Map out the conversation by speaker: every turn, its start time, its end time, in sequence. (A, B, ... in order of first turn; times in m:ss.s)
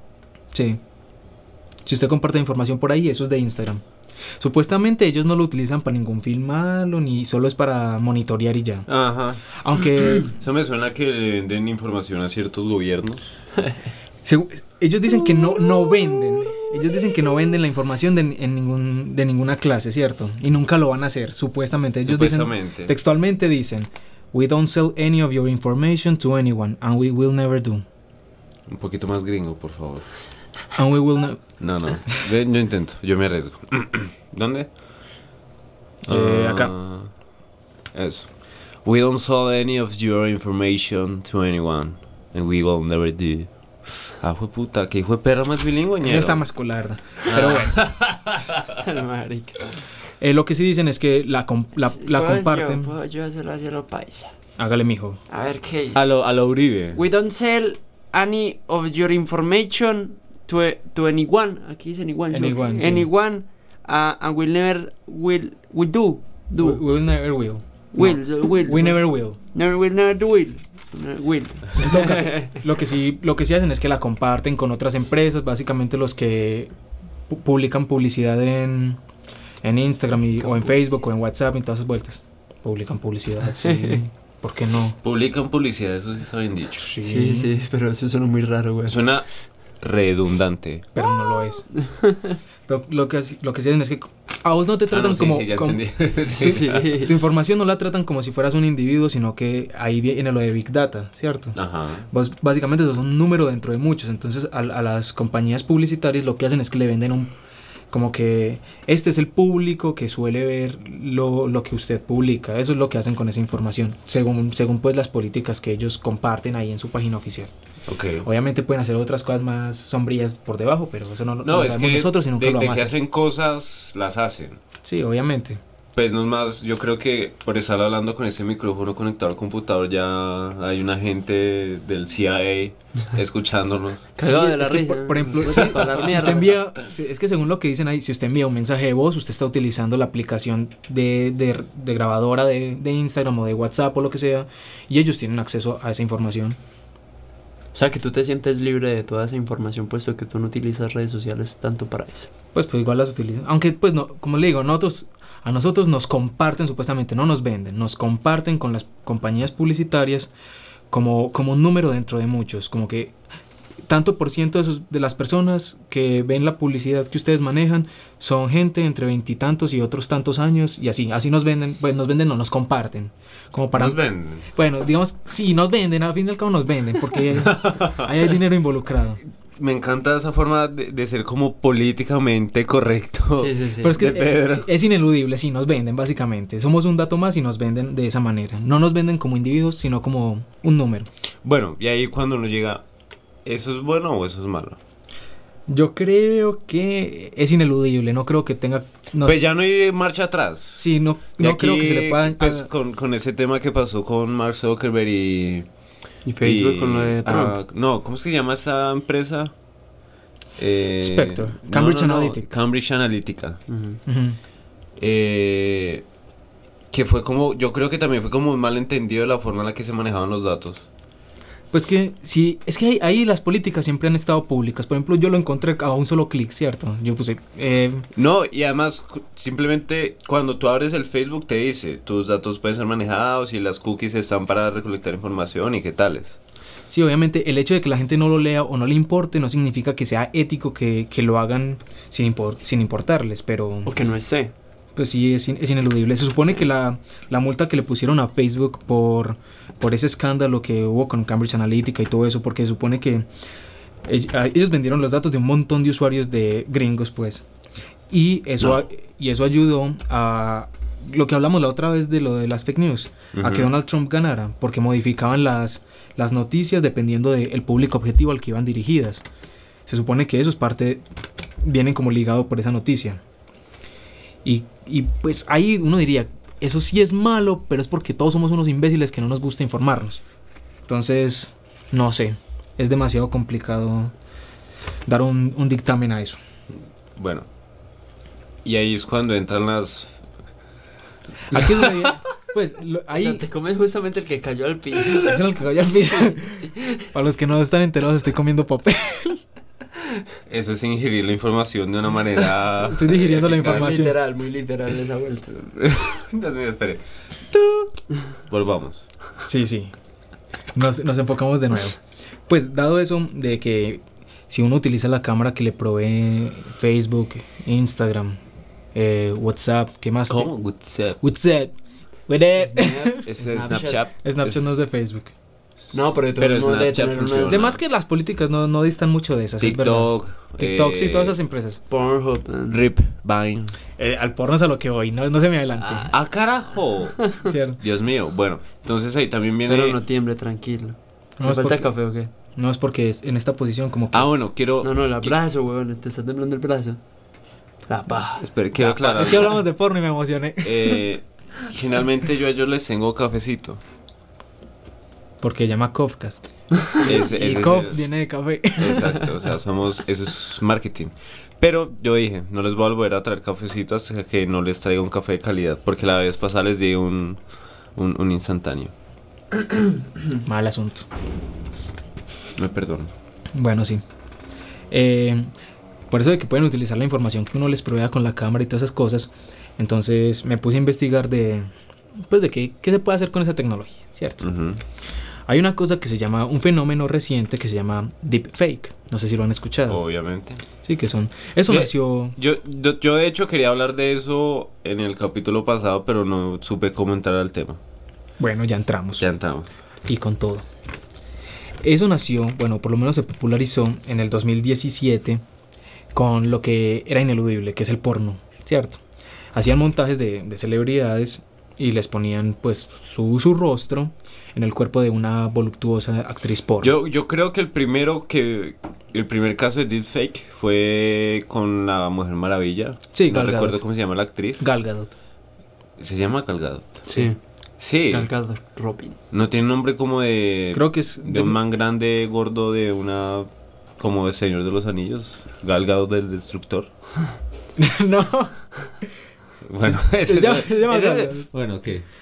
0:00.5-0:00.8 A
0:01.8-0:03.8 A
0:04.4-0:08.9 A
0:08.9-0:13.3 B
0:09.5-0:10.3 A
0:14.2-0:27.8 A
0:22.1-0:22.9 B
0:28.7-0:30.1 B
0:30.7-0:31.5 A
0:31.6-0:34.7 B
0:36.0-0:36.7 A
0:36.1-0:37.1 B
0:37.9-0:46.4 B
0:46.0-0:47.8 A
0:47.3-0:48.8 B
0:48.7-0:49.7 C
0:50.2-0:52.9 A
0:51.8-0:54.3 C
0:54.6-0:55.2 A
0:55.3-0:56.0 C
0:55.9-0:57.0 B
0:56.9-1:06.8 C
1:02.3-1:03.1 A
1:06.6-1:09.4 A
1:07.9-1:12.6 C
1:11.8-1:16.7 A
1:17.3-1:19.0 A
1:19.6-1:25.0 A
1:20.4-1:21.0 C
1:23.6-1:24.0 C
1:25.0-1:26.9 B
1:26.8-1:27.5 A
1:27.0-1:29.0 C
1:28.8-1:29.3 B
1:29.8-1:30.8 B
1:30.9-1:31.7 A
1:31.8-1:32.4 C
1:32.7-1:41.6 A
1:34.9-1:36.9 B
1:36.4-1:37.1 C
1:41.5-1:42.1 B
1:42.1-1:47.3 A
1:47.9-1:57.5 A
1:57.9-1:58.3 B
1:58.2-2:03.0 A
2:01.4-2:04.6 B
2:04.8-2:05.6 A
2:06.0-2:14.1 B
2:14.2-2:16.6 C
2:14.2-2:26.6 A
2:15.5-2:16.3 B
2:27.7-2:32.3 C
2:32.5-2:40.3 A
2:40.9-2:43.1 A
2:43.9-2:59.2 A
2:53.8-2:54.4 B
2:57.4-2:58.1 B
2:59.6-3:04.7 B
3:03.4-3:04.0 C
3:03.8-3:11.1 A
3:11.4-3:12.8 B
3:13.4-3:14.8 B
3:15.7-3:19.4 A
3:19.2-3:20.8 B
3:20.8-3:22.7 A
3:21.4-3:25.7 B
3:26.2-3:27.6 C
3:26.4-3:29.5 B
3:30.6-3:33.6 B
3:31.0-3:32.5 A
3:33.7-3:34.0 C
3:34.0-3:34.4 A
3:35.0-3:36.0 B
3:36.9-3:40.8 B
3:41.7-3:48.0 A
3:48.1-3:56.4 B
3:56.9-4:03.9 A
4:03.8-4:04.5 C
4:05.0-4:13.3 A
4:14.0-4:17.4 A
4:18.1-4:29.2 A
4:23.3-4:23.7 B
4:29.8-4:31.0 A
4:31.6-4:33.2 A
4:34.4-4:40.2 A
4:40.9-4:44.1 A
4:45.0-4:46.4 A
4:47.2-4:47.5 B
4:48.6-4:50.2 B
4:51.5-4:53.4 A
4:51.5-4:52.0 B
4:53.1-4:57.0 C
4:55.1-4:59.4 A
5:00.5-5:03.9 B
5:02.8-5:04.1 A
5:03.3-5:05.8 C
5:05.8-5:07.0 B
5:08.5-5:09.0 B
5:09.4-5:09.9 A
5:10.7-5:18.4 A
5:18.9-5:20.5 A
5:20.3-5:21.2 B
5:21.2-5:21.7 A
5:22.3-5:23.2 A
5:22.6-5:24.1 C
5:23.2-5:24.7 B
5:24.2-5:25.3 A
5:25.9-5:27.7 C
5:26.4-5:27.7 B
5:27.4-5:31.8 A
5:29.6-5:31.4 B
5:31.9-5:32.8 C
5:32.7-5:33.7 B
5:34.0-5:36.1 A
5:35.9-5:40.0 B
5:37.4-5:37.8 A
5:39.7-5:42.3 C
5:41.4-5:41.9 A
5:42.5-5:44.3 A
5:44.1-5:45.4 B
5:44.8-5:47.0 C
5:47.9-5:48.5 C
5:48.4-5:49.6 B
5:48.8-5:51.0 A
5:50.6-5:53.8 B
5:55.4-5:56.5 A
5:57.0-5:58.0 B
5:57.0-5:59.2 A
5:58.8-6:07.4 B
6:08.0-6:08.9 B
6:10.4-6:11.1 A
6:12.6-6:13.1 B
6:13.5-6:14.0 A
6:14.9-6:15.5 A
6:16.1-6:21.7 A
6:22.3-6:24.4 A
6:24.4-6:24.8 B
6:25.5-6:30.0 A
6:29.9-6:30.6 B
6:30.8-6:32.4 A
6:31.7-6:37.8 B
6:38.4-6:39.2 A
6:39.2-6:39.7 B
6:40.0-6:40.6 A
6:41.8-6:45.4 A
6:46.1-6:49.0 A
6:49.5-6:56.9 A
6:56.8-7:04.7 B
7:03.1-7:03.8 A
7:04.6-7:05.1 A
7:06.0-7:07.0 B
7:07.0-7:07.3 A
7:07.1-7:07.4 C
7:07.8-7:08.3 B
7:08.1-7:09.2 C
7:09.3-7:13.5 B
7:10.7-7:11.6 A
7:14.0-7:16.9 B
7:17.8-7:18.5 A
7:19.6-7:22.0 B
7:19.8-7:21.5 A